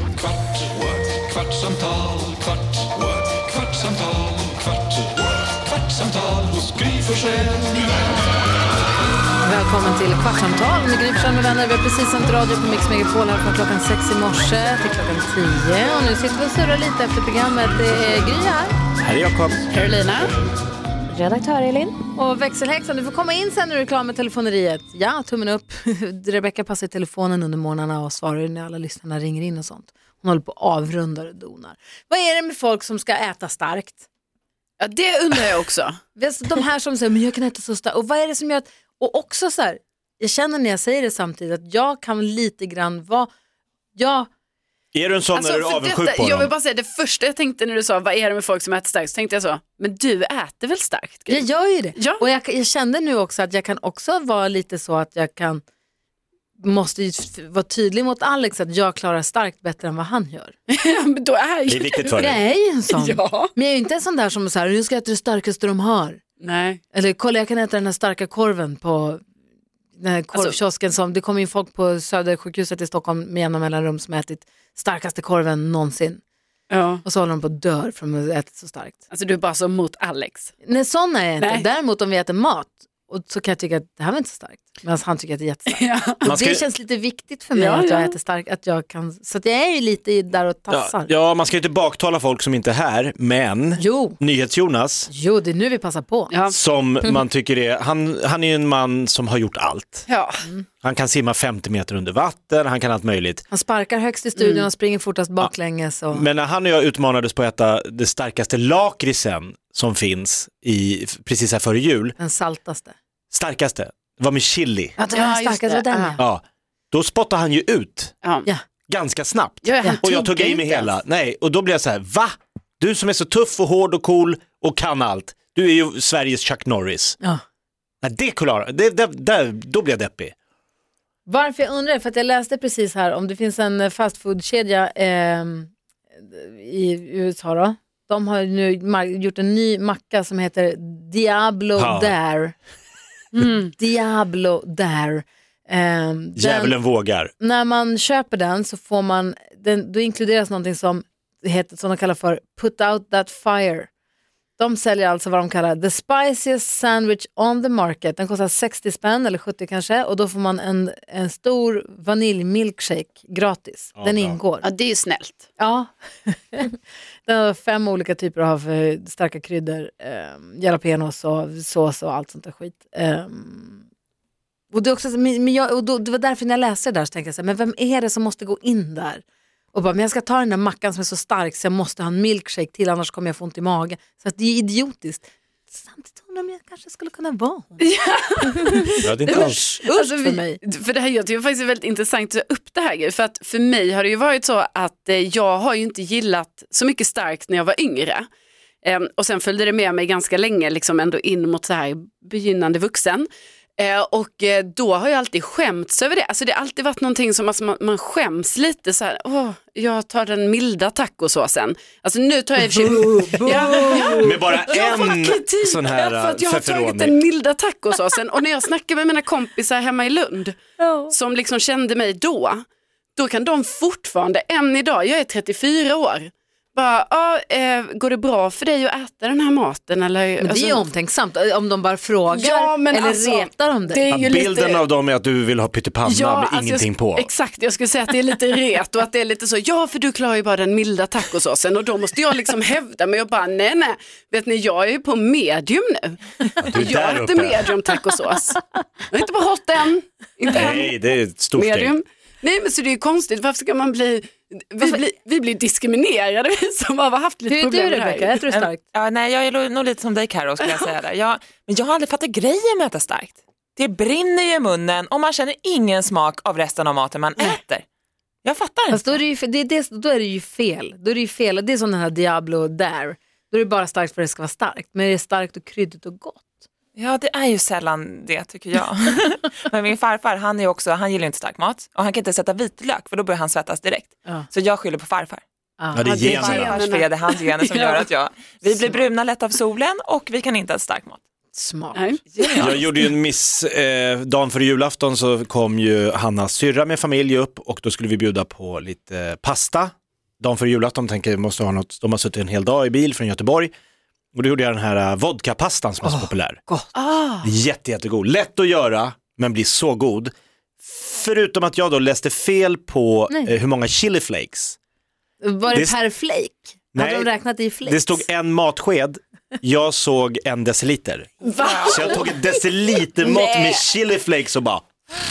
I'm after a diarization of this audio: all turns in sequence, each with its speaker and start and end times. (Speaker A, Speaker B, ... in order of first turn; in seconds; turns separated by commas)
Speaker A: 1.5-2.1, Speaker A: 6.0-7.7, Speaker B: 9.4-18.8, Speaker C: 19.0-19.6, Speaker D: 19.7-20.3, Speaker B: 21.1-34.0, Speaker D: 34.8-36.0, Speaker B: 36.1-43.3, Speaker B: 43.9-44.3, Speaker C: 44.9-46.5, Speaker D: 45.3-52.2, Speaker B: 51.3-55.6, Speaker B: 56.6-60.5, Speaker D: 60.7-62.2, Speaker C: 61.7-62.4, Speaker B: 62.1-66.2, Speaker D: 62.9-63.5, Speaker D: 66.4-66.8, Speaker B: 66.9-69.2, Speaker B: 70.0-76.2, Speaker D: 76.7-77.0, Speaker B: 77.0-79.0, Speaker D: 79.1-80.5, Speaker B: 80.6-91.1, Speaker D: 81.4-81.7, Speaker D: 85.7-86.2, Speaker C: 86.2-86.6, Speaker D: 87.5-88.2, Speaker C: 90.7-95.1, Speaker B: 93.8-94.2, Speaker B: 95.1-96.3, Speaker D: 96.3-96.5, Speaker C: 96.5-100.1, Speaker D: 100.1-100.4, Speaker C: 100.8-103.4, Speaker B: 103.5-106.2, Speaker D: 104.4-104.7, Speaker C: 106.1-112.1, Speaker B: 112.2-112.9, Speaker C: 113.3-114.9, Speaker B: 115.0-116.2, Speaker D: 115.1-116.2, Speaker C: 116.2-118.1, Speaker C: 118.9-127.2, Speaker D: 119.6-120.9, Speaker C: 128.0-130.3, Speaker B: 131.2-142.6, Speaker C: 141.8-142.2, Speaker B: 143.4-146.8, Speaker C: 146.3-147.3, Speaker B: 147.4-153.9, Speaker B: 154.6-164.7, Speaker C: 164.0-164.4, Speaker D: 164.6-165.5, Speaker B: 165.6-173.8, Speaker B: 174.7-187.9, Speaker D: 187.8-198.2, Speaker B: 188.6-190.6, Speaker C: 189.0-189.6, Speaker D: 198.8-220.6, Speaker B: 212.7-214.4, Speaker C: 214.2-217.2, Speaker B: 220.8-221.1, Speaker D: 221.1-222.6, Speaker D: 223.2-230.8, Speaker B: 230.4-234.0, Speaker D: 232.3-234.8, Speaker C: 234.1-237.3, Speaker D: 236.1-250.9, Speaker C: 246.6-247.7, Speaker C: 250.5-251.9, Speaker D: 251.6-258.4, Speaker B: 257.5-258.8, Speaker E: 258.5-267.8, Speaker E: 268.4-269.2, Speaker B: 268.9-276.5, Speaker E: 276.9-285.4, Speaker B: 285.8-286.4, Speaker C: 285.9-286.8, Speaker D: 286.1-288.1, Speaker E: 286.2-291.2, Speaker B: 291.5-292.1, Speaker D: 291.9-292.8, Speaker E: 292.4-292.8, Speaker C: 292.6-303.7, Speaker C: 304.3-306.6, Speaker B: 306.0-306.9, Speaker D: 306.9-307.5, Speaker C: 307.4-314.8, Speaker B: 315.4-318.2, Speaker C: 315.7-316.0, Speaker C: 316.9-317.3, Speaker C: 317.8-321.3, Speaker D: 321.4-322.5, Speaker E: 321.6-322.1, Speaker C: 321.8-324.8, Speaker D: 323.2-323.8